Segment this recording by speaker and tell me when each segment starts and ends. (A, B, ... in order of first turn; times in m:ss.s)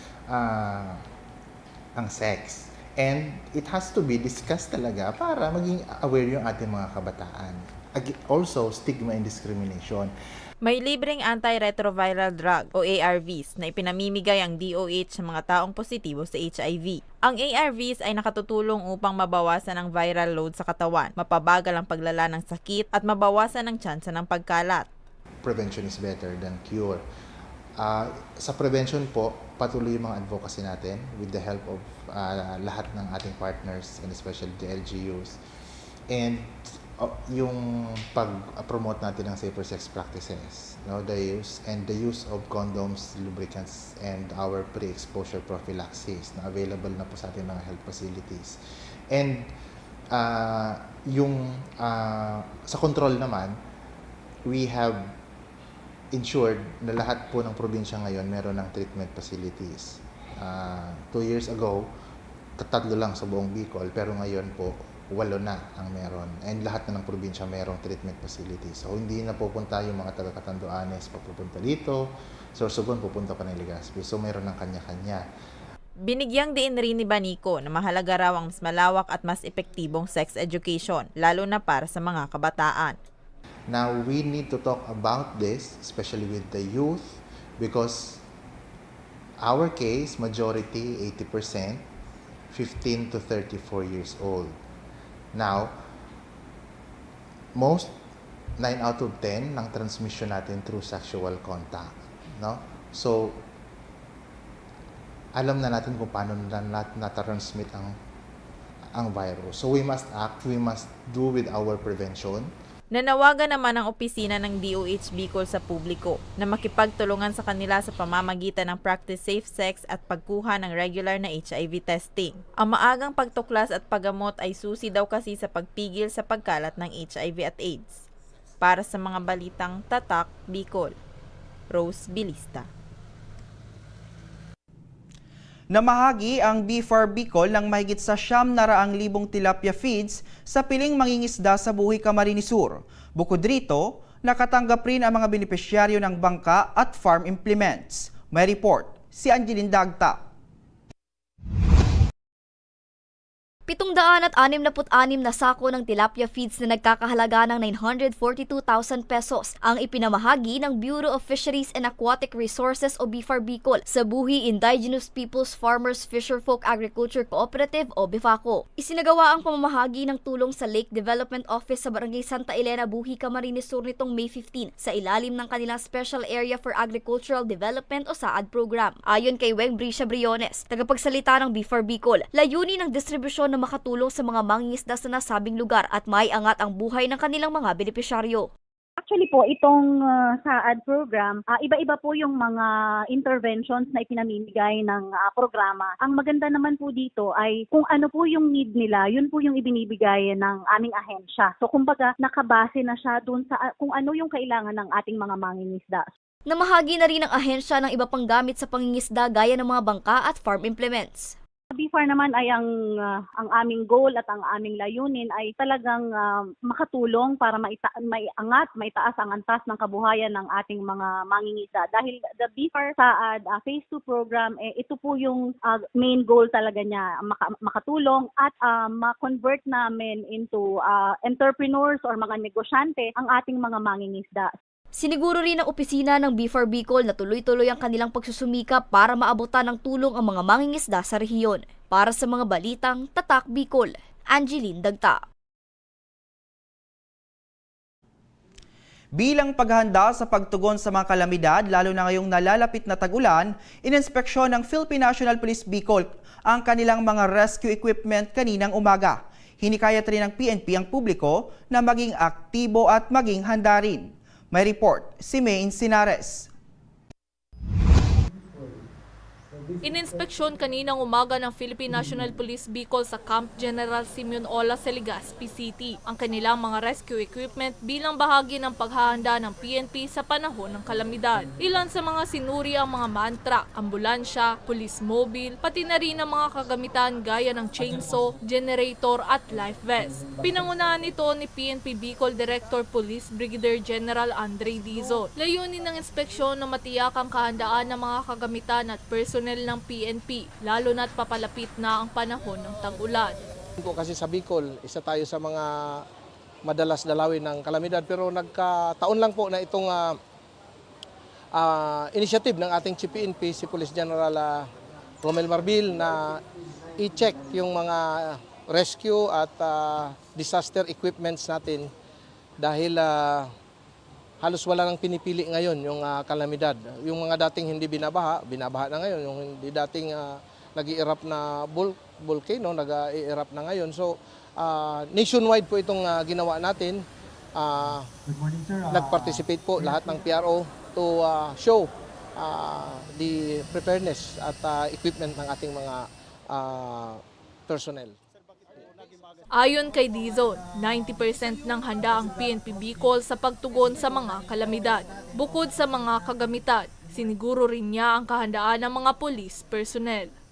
0:00.3-0:01.0 A
0:02.0-0:10.1 A
0:10.6-0:24.9 B
0:25.4-0:27.0 A
0:27.8-0:35.4 A
0:36.1-0:49.5 A
0:50.1-0:53.6 A
0:54.4-0:55.2 A
0:56.1-1:01.9 A
1:02.6-1:12.0 A
1:12.5-1:15.2 A
1:16.1-1:23.0 B
1:23.7-1:28.2 A
1:29.4-1:31.8 A
1:32.5-1:34.6 A
1:35.3-1:35.7 A
1:37.5-1:37.9 A
1:38.6-1:43.4 A
1:45.3-1:48.0 A
1:48.9-1:52.5 A
1:52.9-2:08.0 B
2:08.6-2:10.9 B
2:11.7-2:12.7 B
2:15.7-2:30.2 C
2:33.7-3:08.5 D
3:09.0-3:26.1 E
3:26.5-3:31.3 D
3:31.7-3:54.5 E
3:55.0-4:05.2 D
4:09.1-4:26.5 C
4:29.8-5:03.4 F
5:03.8-5:06.0 G
5:06.6-5:10.2 G
5:11.5-5:14.7 G
5:15.2-5:16.4 G
5:17.0-5:21.9 G
5:22.6-5:23.5 G
5:24.4-5:37.0 G
5:37.6-5:38.1 G
5:38.8-5:48.1 G
5:49.5-6:00.3 F